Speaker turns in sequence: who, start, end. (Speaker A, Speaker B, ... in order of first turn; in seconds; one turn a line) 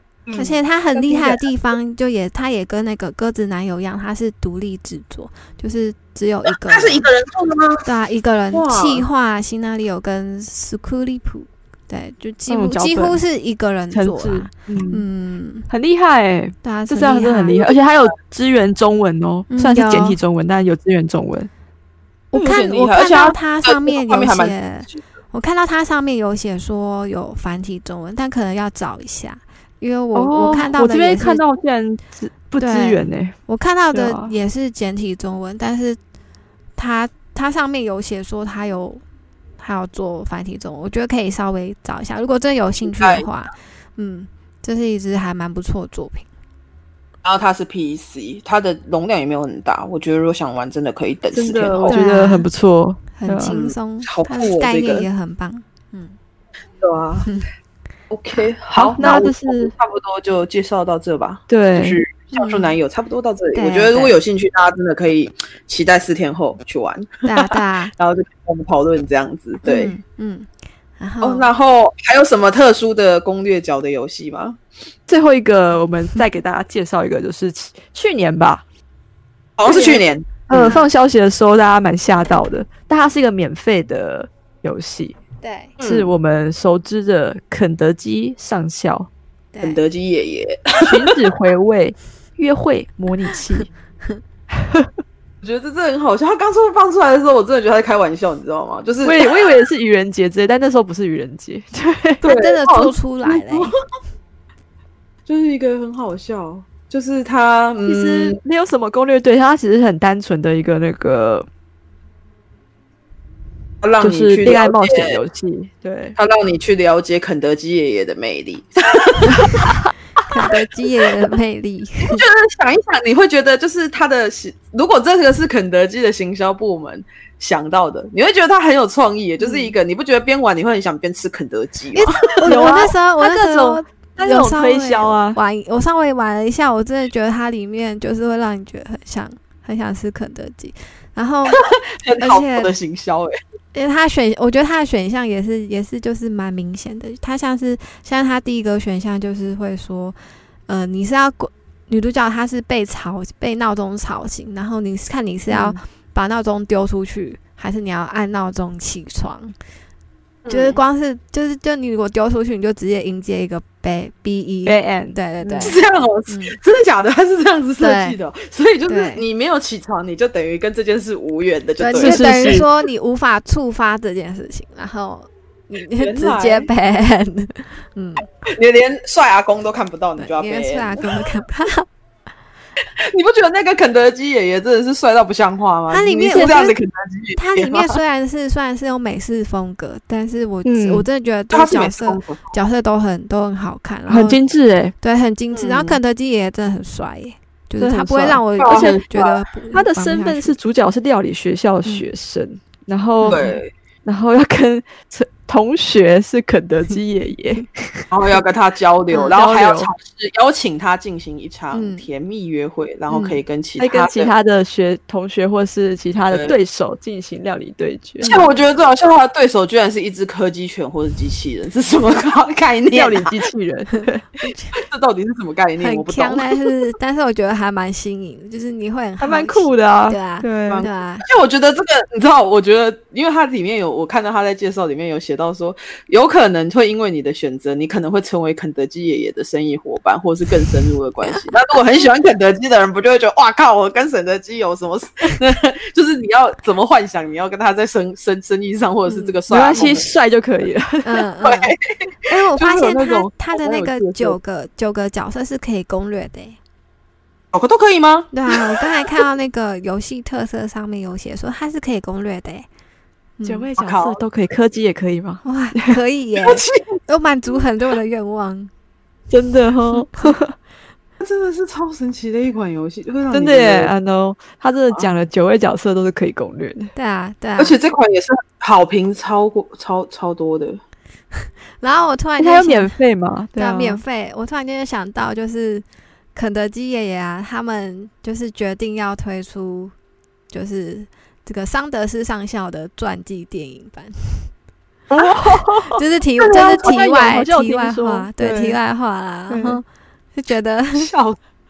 Speaker A: 0.3-1.5
Speaker B: 0.3-7.1
Speaker A: 6.7-7.9
Speaker B: 7.8-15.7
Speaker A: 8.5-9.1
Speaker C: 12.5-13.2
Speaker C: 13.9-15.1
Speaker C: 15.7-21.5
Speaker B: 16.6-17.7
Speaker B: 19.5-20.2
Speaker B: 22.3-31.4
Speaker A: 22.3-25.0
Speaker C: 30.1-33.4
Speaker B: 32.6-36.0
Speaker C: 33.9-34.3
Speaker B: 36.8-39.0
Speaker B: 39.6-46.3
Speaker A: 42.8-43.3
Speaker A: 47.2-52.1
Speaker C: 51.3-53.6
Speaker B: 51.9-52.5
Speaker B: 53.2-56.1
Speaker A: 53.5-55.1
Speaker A: 56.8-57.3
Speaker A: 58.1-70.0
Speaker C: 58.7-59.7
Speaker C: 61.5-62.0
Speaker B: 62.3-62.7
Speaker B: 63.5-64.2
Speaker B: 67.2-67.9
Speaker B: 69.6-70.5
Speaker B: 71.0-71.5
Speaker A: 71.2-74.6
Speaker C: 75.1-78.6
Speaker A: 79.6-80.8
Speaker B: 79.6-80.0
Speaker C: 80.5-85.2
Speaker B: 80.6-80.9
Speaker B: 85.4-85.8
Speaker A: 85.8-86.1
Speaker C: 85.8-89.1
Speaker B: 89.5-89.8
Speaker A: 89.6-91.2
Speaker C: 90.8-93.7
Speaker C: 94.5-94.9
Speaker A: 95.4-99.5
Speaker C: 99.0-102.2
Speaker A: 102.2-103.7
Speaker B: 102.2-103.8
Speaker A: 105.3-108.4
Speaker C: 107.8-111.5
Speaker A: 113.8-115.2
Speaker C: 114.0-116.2
Speaker A: 116.2-119.7
Speaker C: 119.4-119.7
Speaker B: 120.3-122.2
Speaker A: 122.1-132.3
Speaker B: 129.4-129.7
Speaker B: 131.9-141.6
Speaker C: 132.4-135.4
Speaker A: 141.5-143.4
Speaker B: 142.2-142.7
Speaker B: 143.7-159.6
Speaker C: 155.5-155.8
Speaker A: 160.4-160.8
Speaker B: 160.5-166.6
Speaker C: 164.7-165.7
Speaker A: 165.6-172.7
Speaker B: 167.8-168.2
Speaker B: 168.9-169.2
Speaker B: 171.8-178.3
Speaker C: 172.0-172.7
Speaker A: 176.0-176.7
Speaker A: 178.4-181.2
Speaker B: 180.2-181.9
Speaker A: 183.0-188.0
Speaker B: 185.9-186.8
Speaker B: 187.3-194.4
Speaker C: 190.7-191.1
Speaker A: 191.5-192.6
Speaker C: 194.1-194.9
Speaker B: 195.0-200.6
Speaker A: 195.5-196.0
Speaker C: 197.8-199.1
Speaker A: 198.6-199.3
Speaker C: 199.7-203.4
Speaker B: 203.2-203.5
Speaker A: 203.3-203.7
Speaker C: 204.0-207.9
Speaker A: 208.1-214.3
Speaker C: 209.3-209.9
Speaker B: 211.7-212.1
Speaker C: 213.1-218.4
Speaker A: 216.3-216.6
Speaker B: 218.2-218.6
Speaker A: 218.2-223.4
Speaker C: 222.9-224.2
Speaker B: 223.9-224.8
Speaker A: 224.8-226.6
Speaker B: 225.8-231.2
Speaker C: 229.2-230.8
Speaker A: 230.7-250.1
Speaker B: 249.1-249.9
Speaker C: 249.5-251.3
Speaker B: 251.0-251.7
Speaker A: 251.4-251.9
Speaker B: 252.3-256.6
Speaker C: 252.6-254.4
Speaker A: 257.5-259.1
Speaker B: 258.3-262.7
Speaker B: 263.4-263.7
Speaker C: 263.4-266.0
Speaker A: 263.8-264.2
Speaker B: 265.4-268.7
Speaker A: 266.4-267.0
Speaker C: 269.3-270.5
Speaker A: 271.2-273.9
Speaker C: 273.3-276.9
Speaker B: 276.9-277.8
Speaker A: 277.6-280.8
Speaker B: 281.8-282.9
Speaker C: 282.4-284.0
Speaker B: 283.6-289.9
Speaker B: 290.5-294.5
Speaker C: 295.1-298.8
Speaker B: 295.9-299.8
Speaker A: 296.4-297.0
Speaker C: 299.5-299.8
Speaker B: 300.4-301.1
Speaker A: 300.9-301.4